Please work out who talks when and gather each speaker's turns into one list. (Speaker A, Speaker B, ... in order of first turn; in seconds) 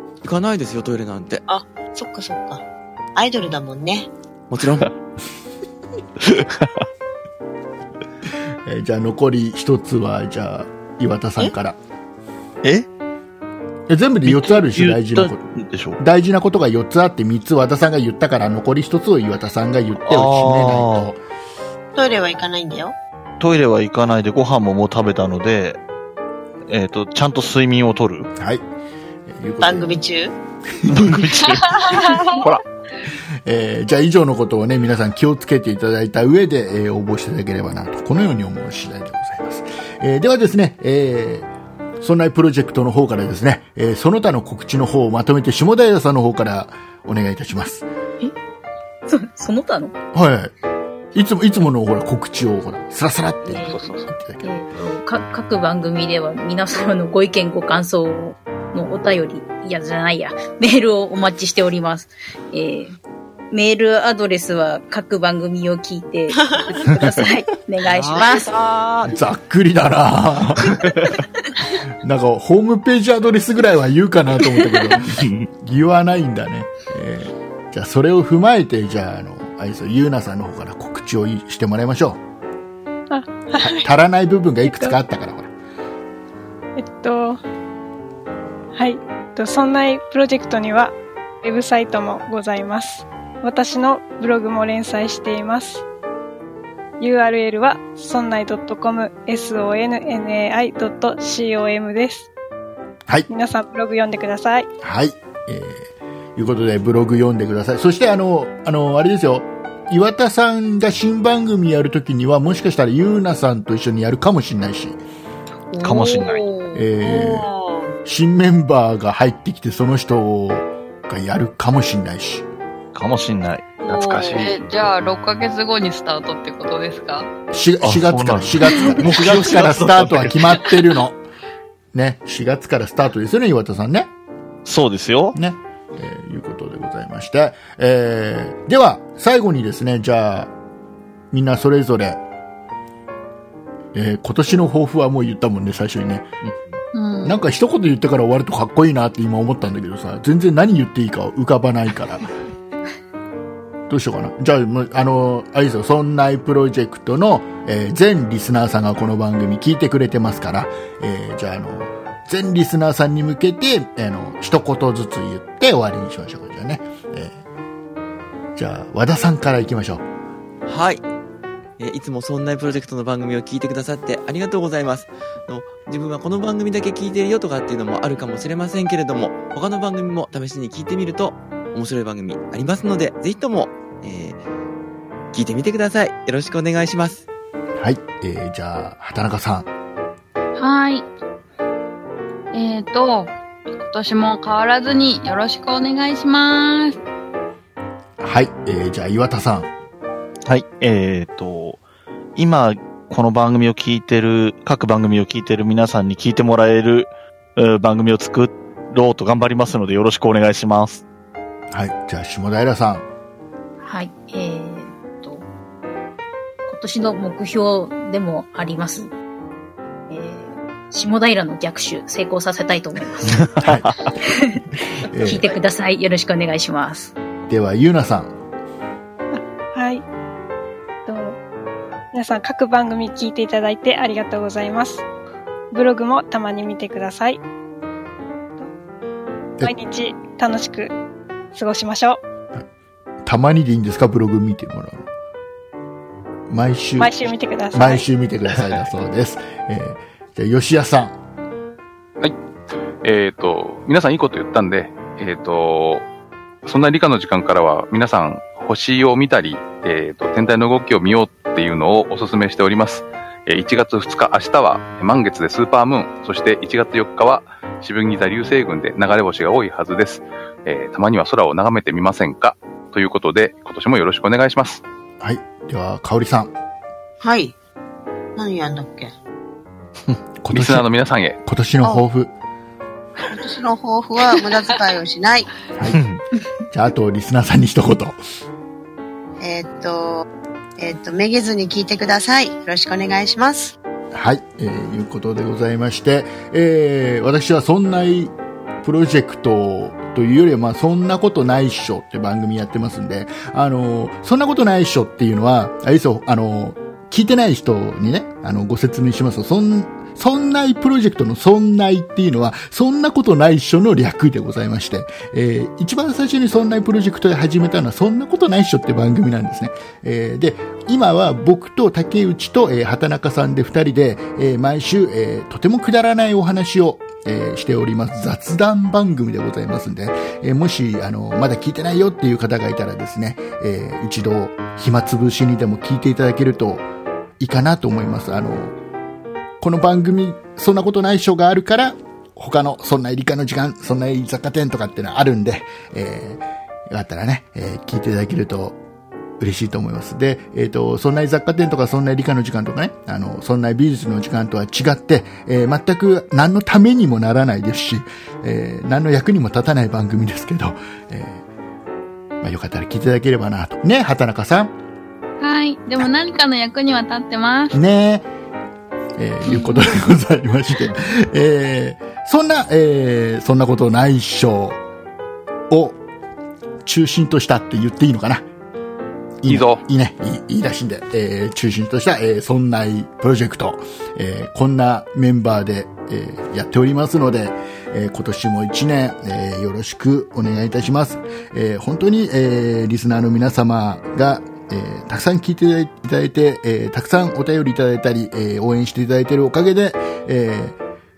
Speaker A: 0.2-1.4, 4.5-4.9, 67.9-69.1, 170.7-171.0, 171.8-184.4, 185.3-187.2
Speaker B: 1.5-2.6, 3.2-4.1, 21.9-22.9, 29.6-30.3, 31.7-32.2, 117.0-117.9, 123.8-124.5, 277.2-277.5, 278.4-279.1, 283.2-285.5, 289.4-290.2, 290.8-293.7
Speaker C: 6.2-6.7, 14.2-16.0, 20.0-21.1, 23.4-25.8, 26.7-28.3, 30.9-31.8, 70.7-71.1, 75.1-75.5, 115.8-116.5, 122.9-123.7, 127.8-130.5, 134.6-135.3, 200.4-201.8, 202.4-211.0, 223.4-223.8, 285.9-286.2
Speaker D: 8.6-11.8, 13.9-15.4, 16.0-21.2, 28.4-28.6, 29.3-30.0, 30.7-31.4, 33.5-41.5, 42.0-47.9, 50.1-50.5, 51.1-54.6, 69.1-70.8, 72.0-82.2, 83.6-85.5, 104.8-115.0, 116.7-117.5, 118.0-122.5, 127.5-131.2, 131.9-134.1, 135.3-140.5, 141.3-142.2, 143.9-146.3, 147.2-152.3, 153.9-167.4, 168.6-170.1, 187.8-189.7, 198.2-199.7, 211.7-213.1, 223.6-223.9, 225.1-225.6, 227.5-228.3, 243.2-245.1, 246.5-251.2, 275.2-276.5, 280.4-280.9, 281.4-282.3, 286.7-288.2, 294.1-336.9, 337.4-338.8, 339.6-348.8, 349.4-361.4, 362.4-364.7, 367.7-368.3, 369.2-374.8, 375.7-376.0, 376.8-378.5, 379.4-400.8
Speaker E: 32.0-32.5, 115.8-116.8, 124.3-127.3, 146.9-147.4, 190.6-191.1, 192.5-197.0, 365.4-367.8, 369.4-369.8
Speaker F: 49.1-50.0, 53.4-63.0, 63.5-68.5, 213.8-215.4, 216.7-219.1, 220.1-223.5, 224.3-224.6, 225.2-227.1
Speaker G: 53.7-54.0, 123.9-124.6, 253.0-256.1, 256.6-274.8, 280.5-281.4, 379.4-379.8
Speaker H: 83.1-83.9, 84.6-85.0, 86.8-87.4, 88.7-95.8, 97.0-102.3, 103.3-104.7, 229.3-230.1, 231.1-231.4, 232.1-235.1, 235.7-237.4, 239.6-240.9, 241.5-242.2, 247.0-248.1